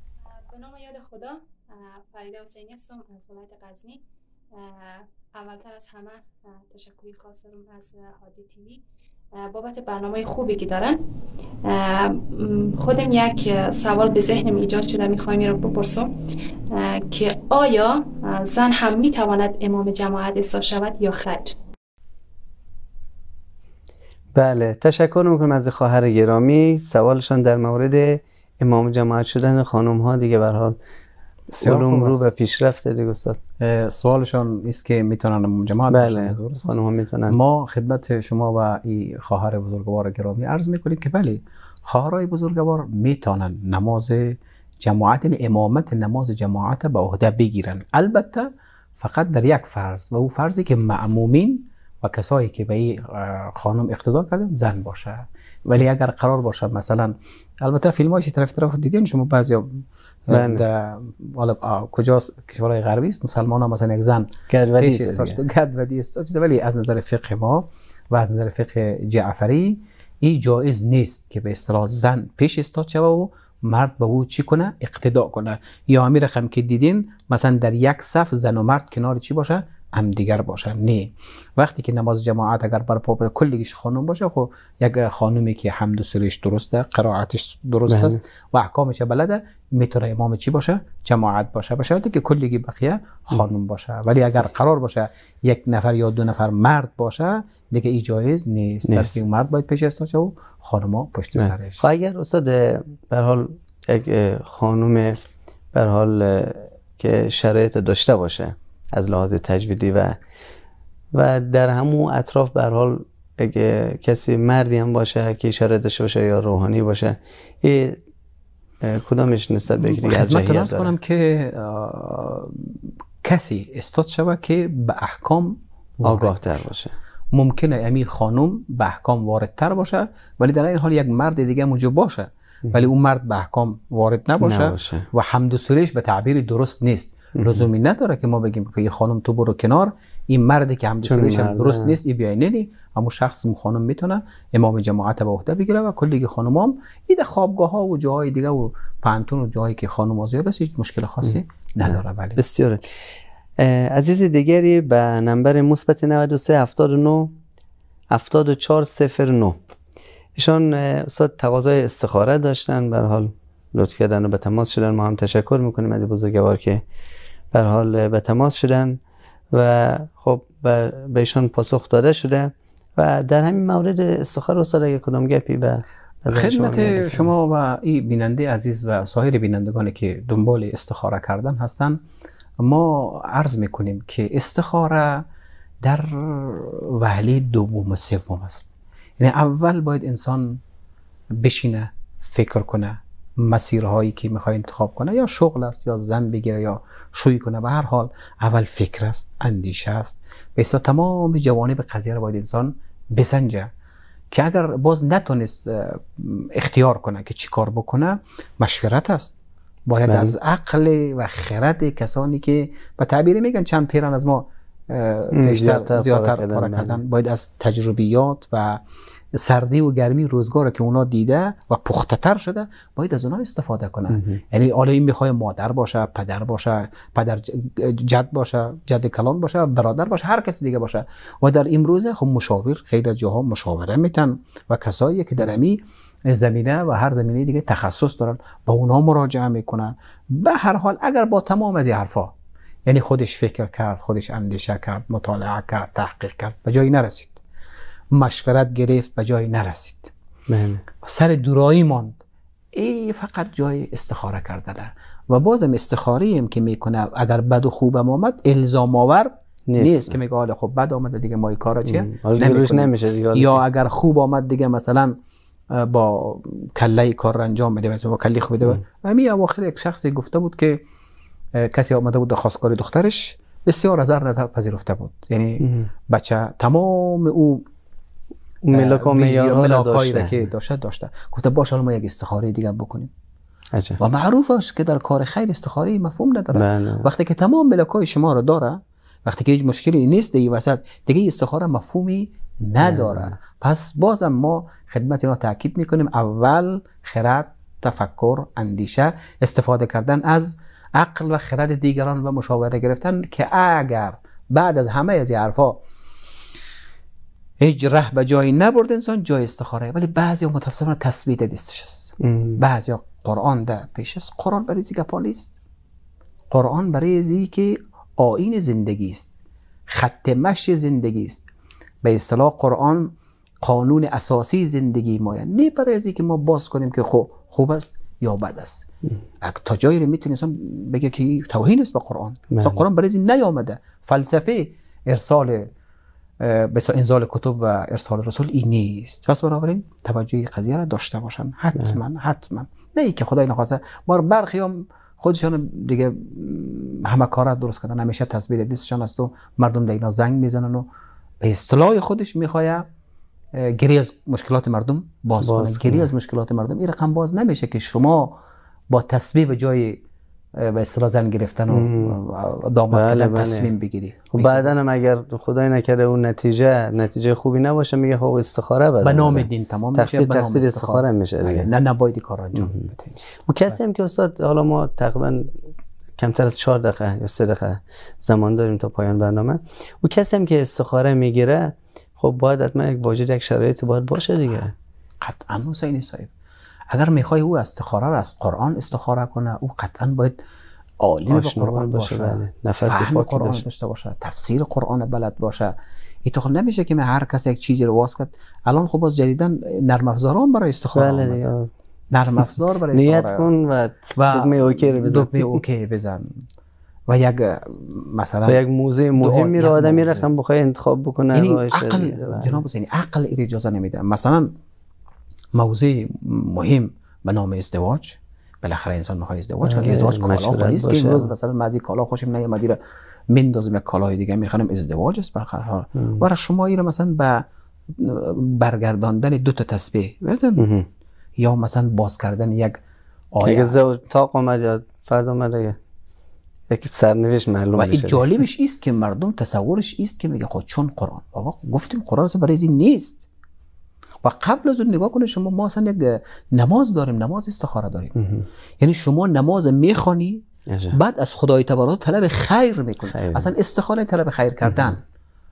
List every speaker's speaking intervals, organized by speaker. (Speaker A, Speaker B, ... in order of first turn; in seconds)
Speaker A: 0.4-4.0, 4.5-8.8, 9.3-11.0, 11.6-16.1, 16.7-21.5
Speaker B: 24.3-30.8, 31.6-33.4, 35.9-37.4, 60.3-60.6, 64.5-65.4, 87.9-88.2, 98.9-99.2, 101.3-110.2, 111.1-118.0, 118.8-120.9, 126.0-126.9, 134.4-135.1, 137.4-137.6, 141.0-141.9, 151.2-152.8, 153.6-157.3, 158.1-159.6, 160.3-166.8, 167.5-169.0, 169.5-177.3, 210.1-210.3, 215.3-217.0, 224.1-224.4, 250.5-250.8, 259.7-260.2, 261.8-263.6, 275.6-275.9, 278.6-280.5, 283.7-284.0, 286.5-287.1, 292.8-293.4, 312.2-312.6, 332.5-332.8, 355.4-356.1, 361.7-362.2, 362.9-363.7, 364.3-371.7, 373.4-375.5, 376.2-384.7, 391.3-393.6, 400.9-401.7, 402.9-405.6, 408.5-412.6, 419.6-421.3, 425.9-426.2, 430.6-430.9, 433.4-435.8, 436.7-438.4, 448.1-448.4, 450.7-451.0, 453.1-453.5, 454.6-454.9
Speaker C: 31.5-32.3, 33.6-101.8, 119.7-126.7, 127.3-152.4, 176.3-182.0, 182.6-185.2, 185.8-190.6, 191.4-203.7, 204.3-218.8, 219.3-242.3, 242.8-247.4, 248.1-250.1, 251.0-252.2, 252.7-265.2, 265.7-270.8, 271.5-277.6, 278.7-283.1, 284.0-305.8, 307.6-315.6, 316.5-319.3, 319.9-321.4, 322.0-328.9, 329.4-335.7, 336.4-350.9, 351.4-352.9, 353.5-358.4, 358.9-360.0, 360.6-364.7, 369.0-373.2, 385.2-386.3, 386.9-390.4, 391.0-395.7, 396.2-401.5, 402.1-403.5, 404.1-406.3, 407.1-408.6, 409.2-410.3, 411.3-414.5, 415.5-422.8, 423.3-427.4, 428.0-430.6, 431.4-432.8, 433.3-433.8, 437.8-443.2, 444.2-448.1, 448.8-455.0